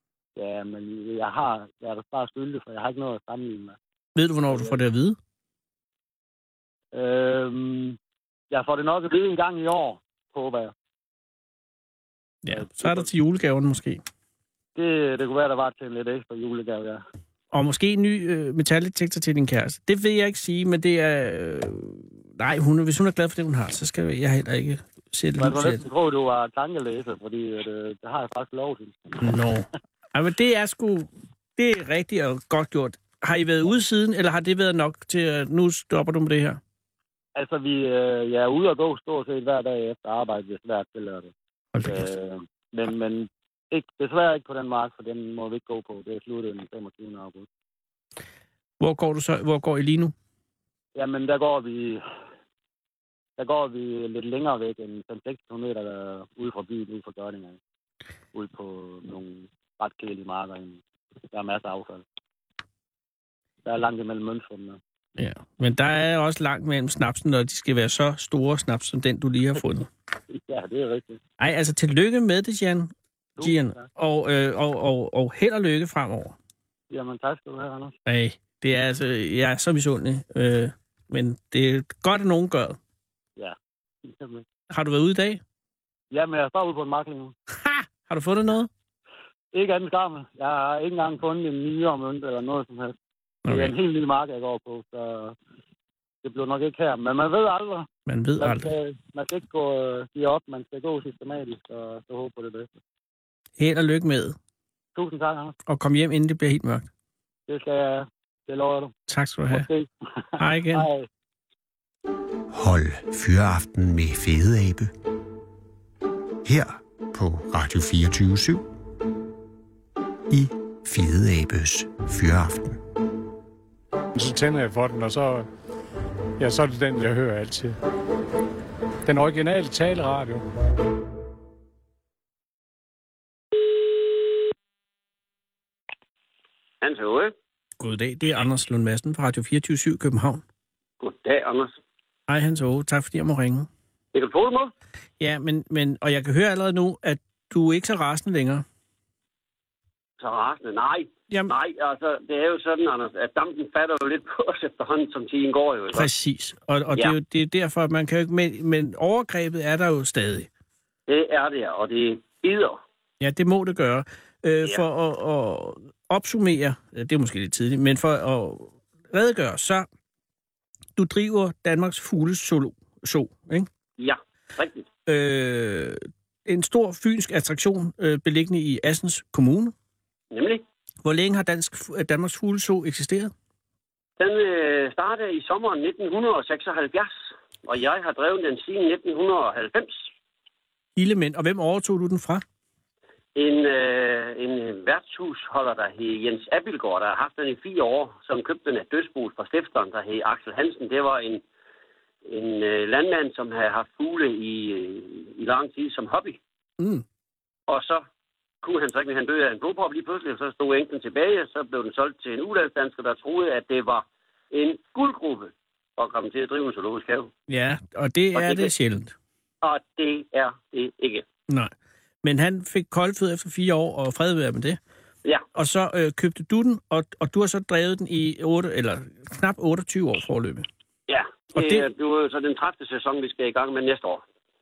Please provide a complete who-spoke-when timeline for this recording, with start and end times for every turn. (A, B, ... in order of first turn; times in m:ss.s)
0:00.4-0:03.8 A
0:04.2-0:05.2 B
0:04.5-0:04.8 A
0:06.9-0:08.0 A
0:08.5-0:10.7 A
0:12.4-0:14.0 B
0:12.5-0:13.1 A
0:14.7-0:17.0 A
0:17.5-0:25.8 B
0:25.4-0:29.2 A
0:29.2-0:36.6 B
0:37.4-0:41.3 A
0:41.7-0:42.1 B
0:41.8-0:47.5 A
0:48.8-0:50.1 B
0:51.0-0:52.0 A
0:53.4-0:57.6 A
0:58.3-1:02.0 A
1:03.6-1:04.8 A
1:05.2-1:09.9 B
1:10.3-1:11.2 A
1:11.4-1:12.9 B
1:13.4-1:13.9 A
1:13.4-1:16.3 B
1:16.9-1:18.0 A
1:18.1-1:22.8 B
1:23.4-1:24.4 A
1:24.7-1:25.4 B
1:26.1-1:27.3 A
1:27.6-1:28.7 B
1:29.5-1:32.9 A
1:33.4-1:33.7 B
1:33.5-1:35.4 A
1:36.2-1:37.9 A
1:38.1-1:38.7 B
1:38.4-1:42.7 A
1:43.6-1:44.4 B
1:45.0-1:45.5 A
1:45.7-1:46.9 B
1:47.5-1:48.9 A
1:49.1-1:49.7 B
1:49.5-1:51.1 A
1:50.4-1:50.9 B
1:52.5-1:54.9 C
1:56.4-1:58.6 C
2:00.3-2:02.8 C
2:04.2-2:05.5 D
2:06.4-2:07.7 D
2:09.0-2:10.4 D
2:16.8-2:17.3 E
2:17.8-2:20.4 B
2:21.0-2:21.8 E
2:22.3-2:23.7 B
2:24.1-2:24.7 E
2:25.2-2:28.6 B
2:30.2-2:36.1 E
2:35.9-2:40.5 B
2:41.1-2:42.8 E
2:43.2-2:49.8 B
2:51.0-2:53.7 B
2:54.0-2:54.9 E
2:55.1-2:59.7 B
3:00.3-3:00.6 E
3:01.0-3:03.3 B
3:04.2-3:10.1 E
3:11.0-3:12.4 B
3:13.3-3:21.4 E
3:22.2-3:26.4 E
3:26.8-3:27.0 B
3:27.7-3:28.0 E
3:28.6-3:37.3 E
3:37.5-3:39.1 B
3:38.3-3:38.7 E
3:39.6-3:41.2 E
3:42.2-3:44.8 B
3:45.5-3:50.7 B
3:51.1-3:54.2 E
3:51.5-3:51.9 B